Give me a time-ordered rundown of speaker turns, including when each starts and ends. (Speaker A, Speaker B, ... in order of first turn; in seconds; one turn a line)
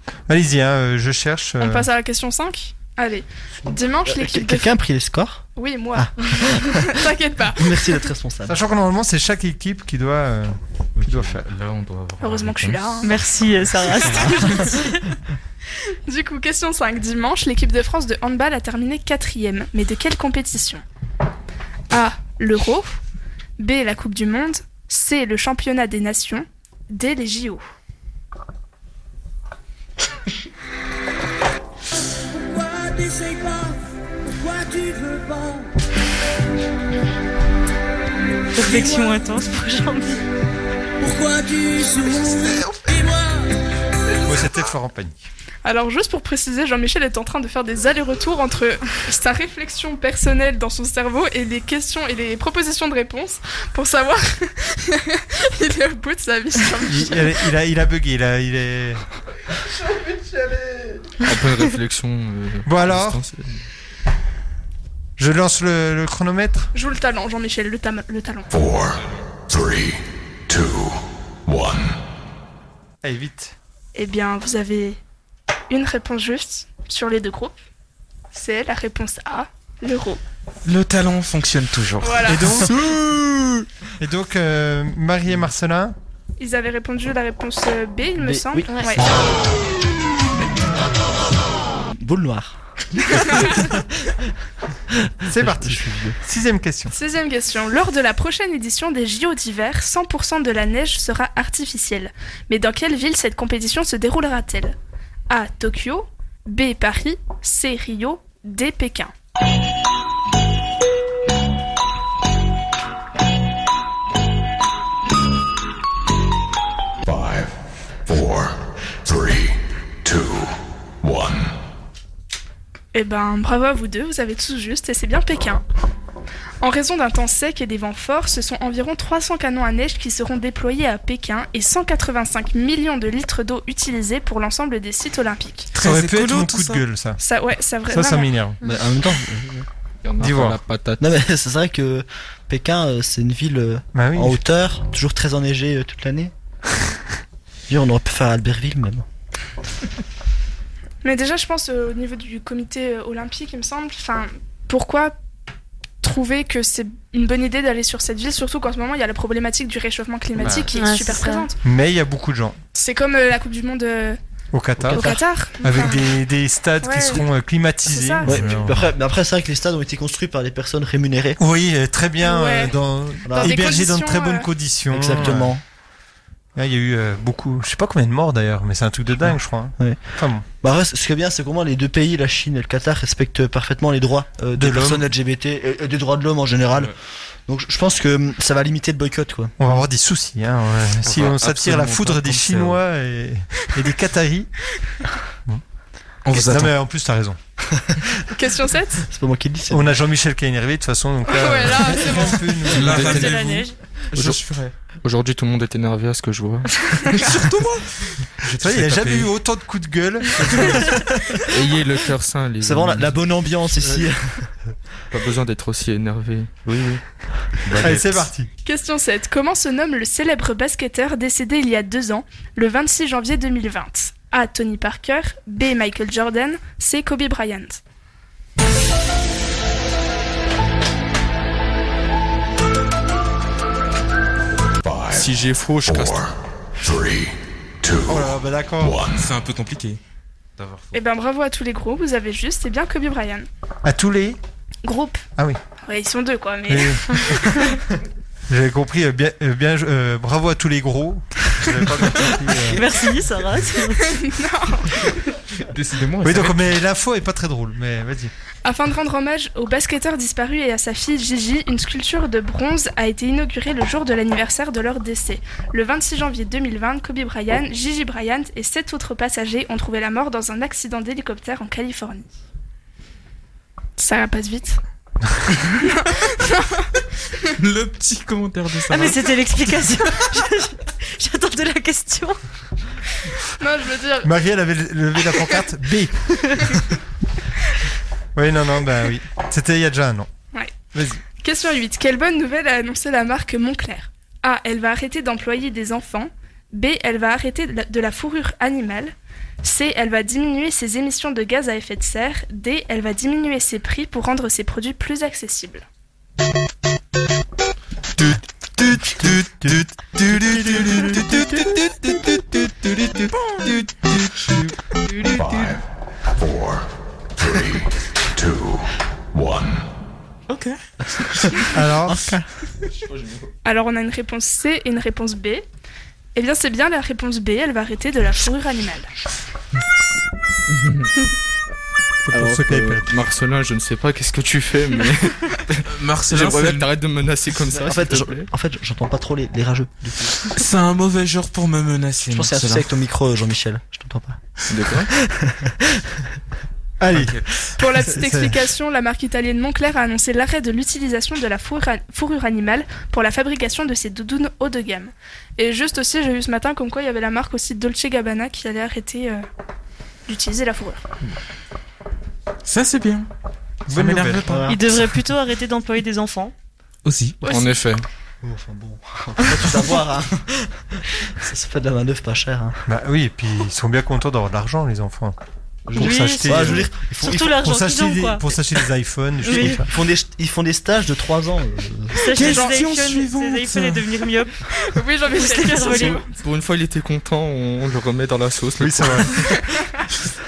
Speaker A: 0.3-1.9
Speaker B: 1.6-4.7
Speaker C: 4.0-8.6
Speaker B: 5.5-8.1
Speaker A: 8.5-11.4
Speaker D: 10.9-13.1
Speaker B: 12.2-13.1
Speaker E: 13.0-15.2
Speaker C: 14.0-14.6
Speaker B: 16.1-20.8
Speaker B: 21.9-23.0
Speaker B: 23.6-27.6
Speaker F: 32.4-35.7
Speaker E: 38.5-40.2
Speaker F: 38.6-39.1
Speaker F: 41.0-43.5
Speaker A: 44.2-45.2
Speaker B: 45.6-57.5
Speaker A: 56.9-59.0
Speaker G: 61.2-63.6
Speaker A: 62.6-63.2
Speaker A: 65.2-66.7
Speaker B: 66.7-68.5
Speaker H: 68.5-71.9
Speaker A: 73.0-73.5
Speaker B: 73.9-75.0
Speaker B: 75.7-77.5
Speaker B: 78.3-80.2
Speaker D: 80.6-83.0
Speaker B: 82.0-82.6
Speaker A: 82.2-82.8
Speaker A: 84.0-85.9
Speaker B: 86.4-89.0
Speaker C: 88.2-89.4
Speaker E: 88.7-89.0
Speaker C: 91.8-94.3
Speaker B: 93.2-93.5
Speaker C: 94.9-96.2
Speaker A: 95.3-96.9
Speaker B: 96.9-104.8
Speaker B: 105.3-109.1
Speaker H: 117.0-117.5
Speaker H: 118.0-121.5
Speaker B: 122.9-125.6
Speaker B: 126.6-135.7
Speaker D: 135.7-136.8
Speaker A: 135.8-137.2
Speaker B: 137.2-138.3
Speaker A: 137.9-138.6
Speaker C: 138.6-139.7
Speaker G: 140.0-141.1
Speaker A: 140.2-140.6
Speaker C: 141.0-146.3
Speaker A: 143.9-144.4
Speaker C: 147.7-149.0
Speaker B: 151.0-155.1
Speaker B: 156.0-161.5
Speaker E: 160.7-161.5
Speaker A: 161.6-162.6
Speaker B: 162.7-164.2
Speaker A: 164.5-165.1
Speaker C: 164.8-165.2
Speaker B: 164.9-166.1
Speaker A: 165.6-168.8
Speaker B: 166.8-167.3
Speaker B: 167.8-168.3
Speaker C: 168.2-171.4
Speaker A: 171.4-175.5
Speaker B: 172.2-172.8
Speaker C: 173.2-173.6
Speaker B: 173.3-174.5
Speaker C: 174.9-175.6
Speaker A: 176.6-180.4
Speaker C: 179.2-186.9
Speaker A: 184.5-185.1
Speaker C: 187.5-189.5
Speaker A: 189.6-194.5
Speaker G: 191.1-192.8
Speaker D: 196.2-196.7
Speaker A: 196.3-197.4
Speaker G: 196.3-196.6
Speaker C: 197.7-198.2
Speaker B: 198.3-199.0
Speaker C: 199.0-199.9
Speaker A: 199.7-203.5
Speaker B: 201.3-202.7
Speaker D: 202.7-204.7
Speaker G: 202.8-203.4
Speaker E: 202.9-203.8
Speaker G: 205.0-207.4
Speaker D: 207.2-207.9
Speaker D: 208.4-209.3
Speaker A: 208.6-211.1
Speaker G: 211.4-213.2
Speaker C: 212.6-214.5
Speaker G: 215.1-216.6
Speaker C: 216.7-217.0
Speaker G: 217.7-218.2
Speaker A: 217.8-218.5
Speaker B: 218.6-227.8
Speaker H: 234.8-239.2
Speaker G: 235.1-236.2
Speaker A: 238.1-239.0
Speaker D: 239.1-240.0
Speaker D: 240.6-241.0
Speaker B: 240.9-243.5
Speaker A: 243.8-244.4
Speaker B: 244.8-245.2
Speaker B: 245.8-247.8
Speaker A: 246.7-247.3
Speaker A: 248.5-252.8
Speaker E: 252.7-254.0
Speaker B: 254.0-255.1
Speaker D: 255.6-256.7
Speaker A: 256.2-258.3
Speaker B: 258.6-272.3
Speaker B: 274.0-274.8
Speaker B: 275.7-276.9
Speaker D: 277.5-279.2
Speaker E: 278.9-282.4
Speaker B: 283.6-284.3
Speaker A: 284.2-286.4
Speaker A: 288.4-290.3
Speaker A: 290.9-291.2
Speaker B: 291.4-305.8
Speaker G: 308.2-314.1
Speaker A: 309.2-309.7
Speaker H: 315.2-315.8
Speaker H: 316.4-316.8
Speaker H: 317.4-319.8
Speaker D: 320.5-320.8
Speaker A: 321.7-322.4
Speaker C: 322.0-322.4
Speaker G: 323.0-323.5
Speaker B: 323.6-325.6
Speaker B: 326.3-329.1
Speaker A: 332.2-333.2
Speaker G: 332.3-338.4
Speaker D: 335.9-336.9
Speaker C: 337.7-340.4
Speaker D: 340.5-342.9
Speaker C: 342.2-346.3
Speaker G: 344.7-345.1
Speaker A: 347.0-347.4
Speaker D: 347.1-347.5
Speaker B: 347.8-359.4
Speaker A: 348.0-348.6
Speaker B: 360.3-361.0
Speaker D: 362.6-363.3
Speaker D: 363.9-364.8
Speaker A: 363.9-364.5
Speaker C: 364.4-364.8
Speaker E: 364.7-366.5
Speaker D: 367.0-367.4
Speaker G: 367.4-368.0
Speaker B: 367.4-367.8
Speaker C: 368.4-372.8
Speaker A: 372.9-375.4
Speaker A: 375.9-376.9
Speaker E: 375.9-378.5
Speaker C: 375.9-377.6
Speaker A: 377.6-379.8
Speaker E: 379.4-379.8
Speaker C: 379.5-382.1
Speaker E: 382.1-384.6
Speaker D: 382.3-384.1
Speaker B: 382.4-382.8
Speaker B: 384.8-386.3
Speaker E: 385.3-386.2
Speaker G: 386.0-389.5
Speaker A: 388.8-389.3